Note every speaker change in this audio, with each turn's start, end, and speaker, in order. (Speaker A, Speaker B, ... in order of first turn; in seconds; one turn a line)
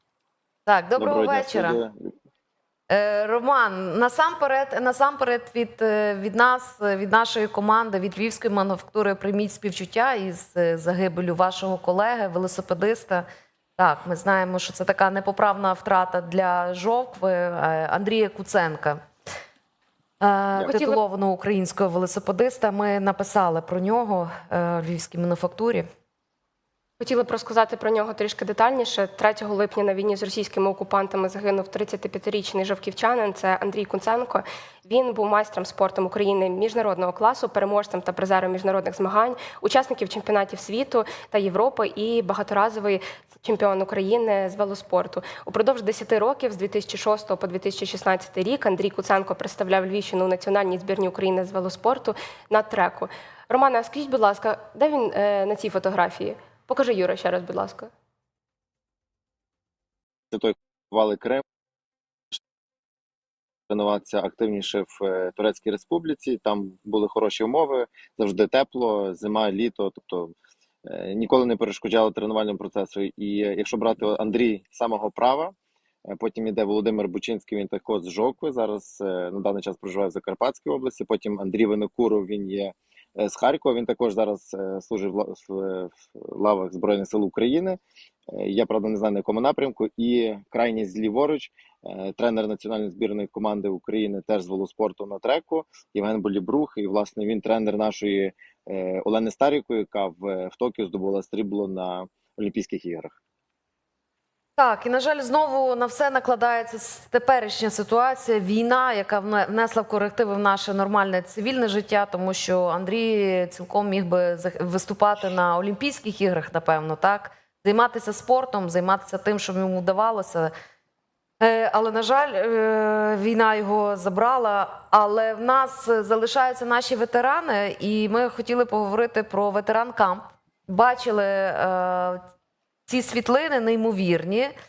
Speaker A: 0.7-1.8
Speaker B: 1.0-2.1
Speaker A: 2.9-13.2
Speaker A: 13.8-19.0
Speaker A: 20.2-25.9
Speaker C: 20.7-21.0
Speaker C: 27.0-57.9
Speaker B: 60.3-61.4
Speaker B: 63.7-70.3
Speaker B: 70.8-75.5
Speaker B: 76.1-87.8
Speaker B: 88.3-103.2
Speaker A: 104.6-120.5
Speaker A: 121.4-132.2
Speaker A: 132.9-134.5